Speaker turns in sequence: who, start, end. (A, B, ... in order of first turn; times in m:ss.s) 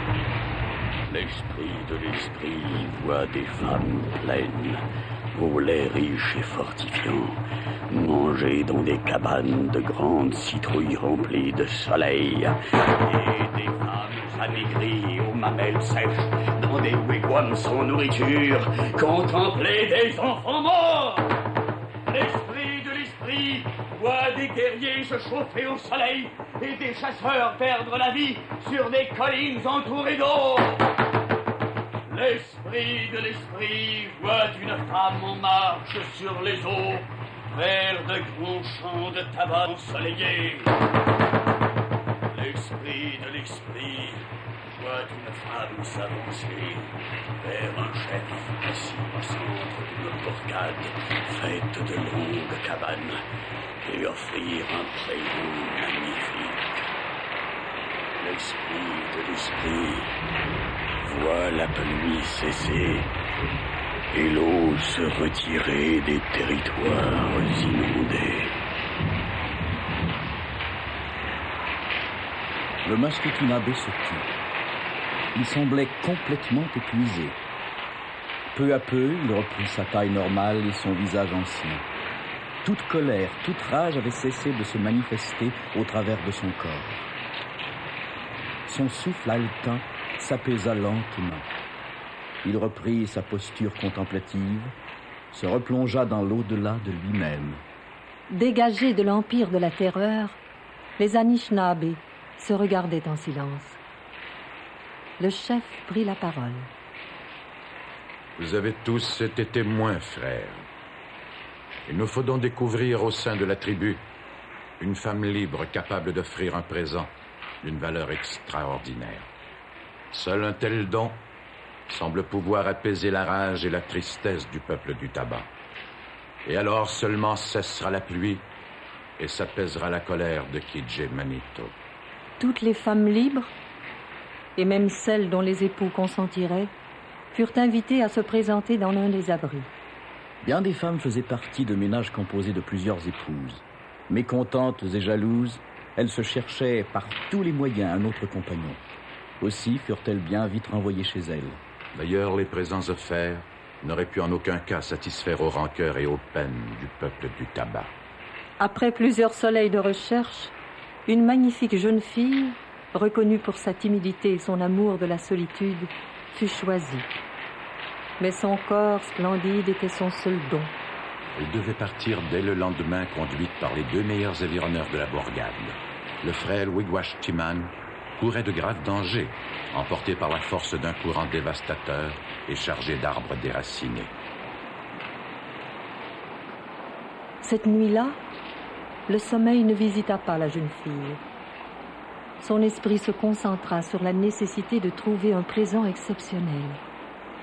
0:01.1-0:21.3 A
0:22.0-0:30.8 A
0:32.1-0:40.7 A
0:42.3-0:53.2 A
0:53.8-0:56.9 A
0:58.2-1:00.2 A
1:01.0-1:03.1 A
1:04.1-1:08.6 A
1:12.8-1:14.3 B
1:15.3-1:17.4 B
1:18.5-1:21.8 B
1:22.6-1:27.1 B
1:28.6-1:31.5 B
1:32.4-1:34.7 B
1:35.3-1:37.6 B
1:38.3-1:40.4 C
1:41.0-1:43.8 C
1:45.2-1:46.7 C
1:48.4-1:50.6 D
1:51.8-1:54.0 D
1:54.8-1:59.3 D
2:00.1-2:01.2 D
2:01.9-2:05.5 D
2:06.4-2:08.4 D
2:09.2-2:11.7 D
2:12.4-2:13.5 C
2:14.6-2:16.7 C
2:17.3-2:19.7 C
2:20.4-2:28.8 B
2:29.4-2:31.6 B
2:31.9-2:37.9 D
2:38.6-2:40.5 C
2:41.1-2:47.2 C
2:48.2-2:50.7 C
2:51.3-3:04.1 D
3:07.4-3:08.2 C
3:09.1-3:11.2 C
3:12.4-3:16.8 C